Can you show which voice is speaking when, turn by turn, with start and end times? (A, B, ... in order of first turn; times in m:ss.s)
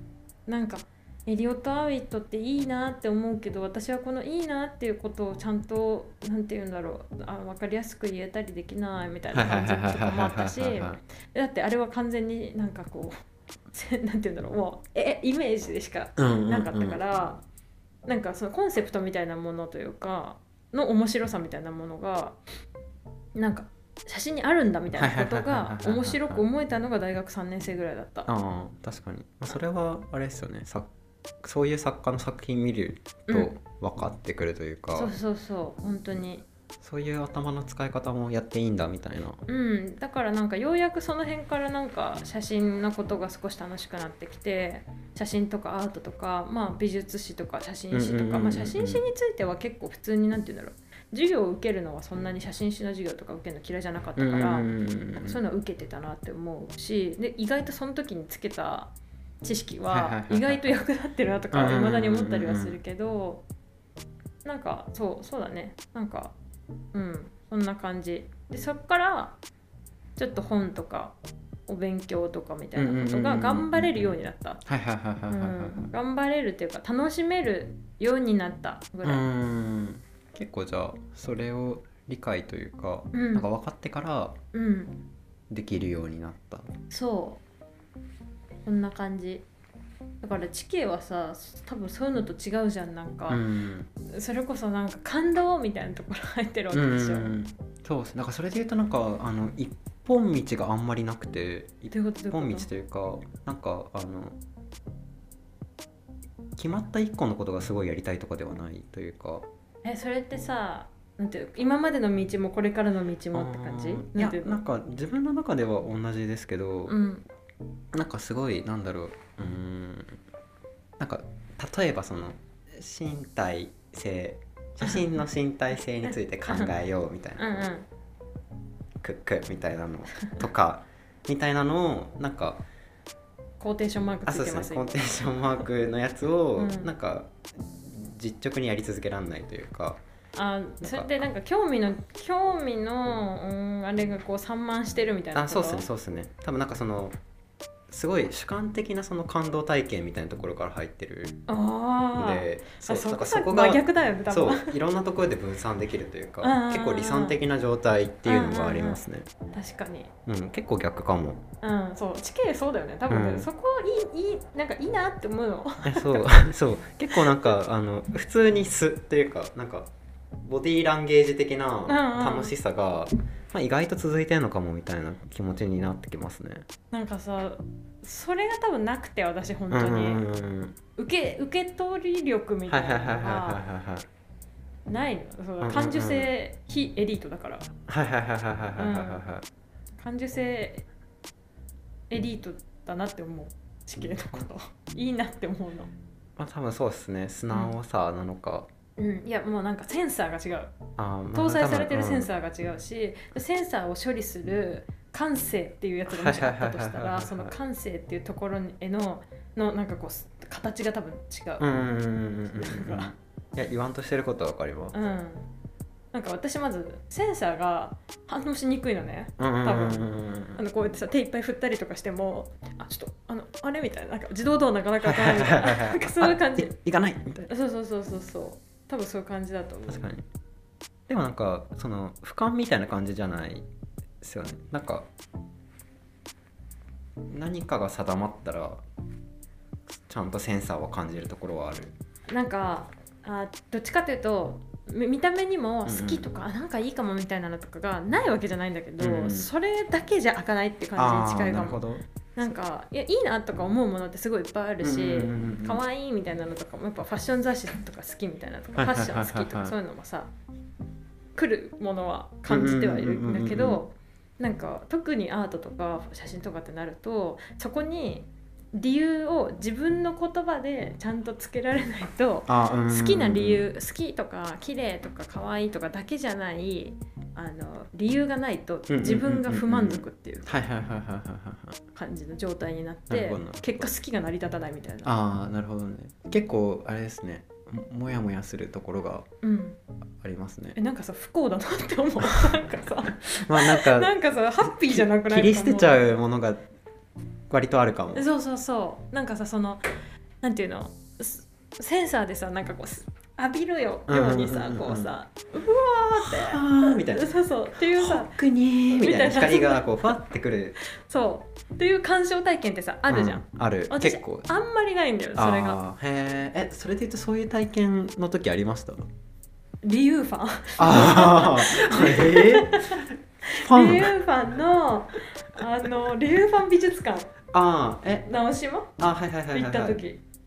0:00.5-0:13.1 A
0:09.3-0:11.0 B
0:13.7-0:17.4 A
0:16.2-0:17.0 B
0:18.0-0:22.4 A
0:23.3-0:28.3 A
0:24.9-0:26.4 B
0:28.2-0:30.9 B
0:31.4-0:35.1 B
0:33.3-0:33.6 A
0:34.9-0:36.4 A
0:36.8-0:39.4 B
0:39.5-0:54.7 A
0:47.9-0:49.0 B
0:54.2-0:55.4 B
0:55.2-0:58.9 A
0:59.4-1:03.4 A
0:59.9-1:00.7 B
1:01.5-1:02.8 B
1:04.4-1:06.3 A
1:06.9-1:09.4 A
1:10.2-1:11.1 A
1:11.7-1:14.6 A
1:12.8-1:15.9 B
1:15.3-1:19.2 A
1:19.0-1:24.4 B
1:23.1-1:23.5 A
1:24.5-1:25.0 A
1:25.5-1:26.7 B
1:26.9-1:27.4 A
1:28.6-1:29.4 A
1:30.2-1:33.4 A
1:33.3-1:33.9 B
1:34.1-1:37.4 A
1:36.7-1:44.4 B
1:41.9-1:42.7 A
1:46.6-1:49.4 B
1:49.8-1:54.6 A
1:53.3-1:57.0 B
1:56.9-1:57.2 A
1:57.9-2:00.2 B
2:01.0-2:07.7 B
2:07.4-2:07.9 A
2:09.0-2:12.6 B
2:13.6-2:15.1 A
2:14.2-2:20.0 B
2:16.6-2:16.9 A
2:20.3-2:25.8 A
2:20.8-2:21.1 B
2:25.3-2:27.2 B
2:27.9-2:31.4 B
2:31.5-2:34.7 A
2:32.1-2:39.3 B
2:36.4-2:37.4 A
2:38.2-2:39.0 A
2:39.5-2:40.1 A
2:40.2-2:41.4 B
2:41.6-2:46.5 A
2:43.1-2:43.5 B
2:45.8-2:49.9 B
2:47.1-2:47.5 A
2:50.4-2:56.6 B
2:51.9-2:52.5 A
2:56.9-3:00.2 A
2:59.7-3:00.8 B
3:01.0-3:03.6 A
3:02.7-3:04.0 B
3:04.9-3:07.7 A
3:05.6-3:06.3 B
3:07.9-3:09.4 B
3:08.8-3:09.2 A
3:10.0-3:10.8 A
3:12.1-3:15.9 A
3:16.4-3:18.7 B
3:19.0-3:20.8 A
3:21.0-3:22.3 B
3:21.3-3:31.6 A
3:26.1-3:27.5 B
3:31.6-3:34.9 B
3:32.5-3:33.1 A
3:34.9-3:35.5 A
3:36.1-3:46.8 A
3:39.4-3:40.6 B
3:45.0-3:47.5 B
3:47.5-3:50.0 A
3:49.9-3:50.2 B
3:51.1-3:53.6 B
3:54.2-3:55.1 B
3:57.3-3:58.8 B
4:00.1-4:01.9 B
4:02.3-4:11.8 A
4:05.8-4:06.2 B
4:09.0-4:09.5 B
4:11.0-4:12.0 B
4:12.4-4:20.3 A
4:14.8-4:15.8 B
4:18.8-4:19.7 B
4:21.4-4:40.5 A
4:22.5-4:23.8 B
4:32.5-4:33.7 B
4:38.9-4:41.8 B
4:41.9-4:45.1 A
4:43.1-4:43.9 B
4:45.0-4:49.3 B
4:49.4-4:49.8 A
4:50.2-4:50.8 B
4:50.8-4:56.0 A
4:53.2-4:56.6 B
4:57.5-4:58.3 B
4:58.1-4:59.8 A
5:00.4-5:08.4 A
5:04.1-5:05.1 B
5:06.2-5:10.8 B
5:08.9-5:10.1 A
5:10.9-5:15.8 A
5:13.1-5:14.5 B
5:15.3-5:19.1 B
5:19.8-5:27.3 A
5:20.8-5:24.2 B
5:27.5-5:28.3 B
5:28.2-5:28.9 A
5:29.0-5:30.0 B
5:29.5-5:30.2 A